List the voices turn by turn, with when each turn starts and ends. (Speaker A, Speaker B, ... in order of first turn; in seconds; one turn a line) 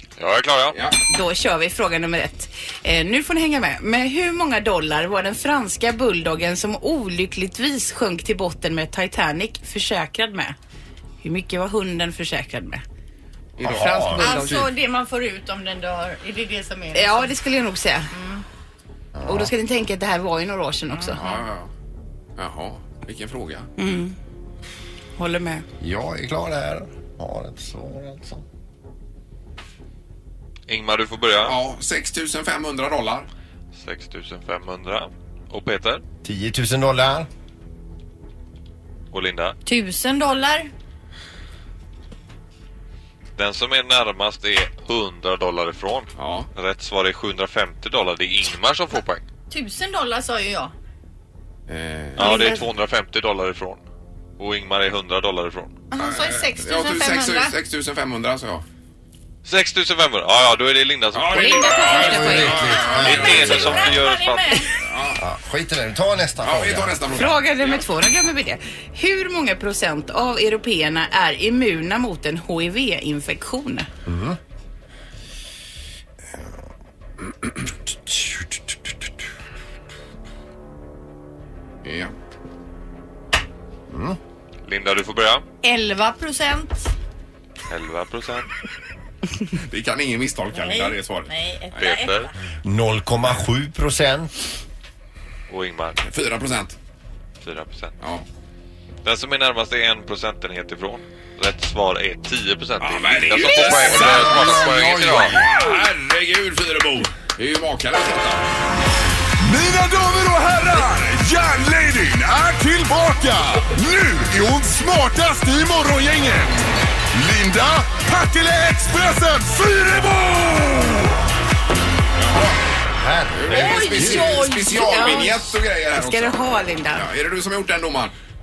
Speaker A: 0.2-0.8
Speaker B: 0.7-1.0
Speaker C: 1.1-10.6
Speaker C: 11.2-12.8
Speaker B: 13.6-14.1
Speaker D: 13.6-14.4
Speaker C: 13.7-14.7
Speaker E: 14.2-17.3
Speaker C: 16.9-18.1
Speaker E: 18.1-18.4
Speaker D: 19.2-19.5
Speaker C: 19.2-21.2
Speaker E: 20.9-21.4
Speaker B: 21.2-21.7
Speaker B: 22.4-23.7
Speaker C: 23.8-24.2
Speaker C: 25.2-25.6
Speaker D: 25.8-28.4
Speaker A: 30.7-31.6
Speaker B: 31.4-33.3
Speaker A: 33.8-36.0
Speaker D: 36.2-37.3
Speaker A: 39.1-39.6
Speaker E: 39.7-40.7
Speaker A: 43.4-49.2
Speaker B: 46.2-46.5
Speaker E: 49.5-50.7
Speaker B: 51.7-52.5
Speaker A: 52.2-53.8
Speaker E: 52.2-52.6
Speaker A: 54.4-55.8
Speaker E: 55.9-57.5
Speaker B: 56.0-58.6
Speaker A: 59.5-64.7
Speaker B: 61.1-63.9
Speaker C: 61.3-62.6
Speaker E: 61.6-62.1
Speaker D: 61.9-64.0
Speaker E: 62.8-64.7
Speaker B: 64.8-65.2
Speaker D: 65.2-67.0
Speaker B: 66.4-67.8
Speaker C: 67.1-73.9
Speaker D: 74.1-74.4
Speaker D: 78.1-78.4
Speaker B: 81.8-82.1
Speaker D: 83.9-84.2
Speaker A: 84.6-85.4
Speaker E: 85.6-86.8
Speaker A: 87.7-88.5
Speaker B: 89.5-91.3
Speaker E: 90.6-92.3
Speaker A: 91.8-92.3
Speaker D: 92.6-94.3
Speaker A: 95.5-96.0
Speaker B: 96.0-96.8
Speaker A: 97.4-97.9
Speaker A: 99.0-105.4
Speaker B: 102.8-108.5
Speaker D: 103.4-105.6
Speaker F: 109.5-116.4
Speaker F: 117.2-120.5
Speaker B: 122.2-122.6
Speaker D: 123.0-124.5
Speaker B: 123.3-128.1
Speaker E: 123.5-125.3
Speaker C: 124.8-127.1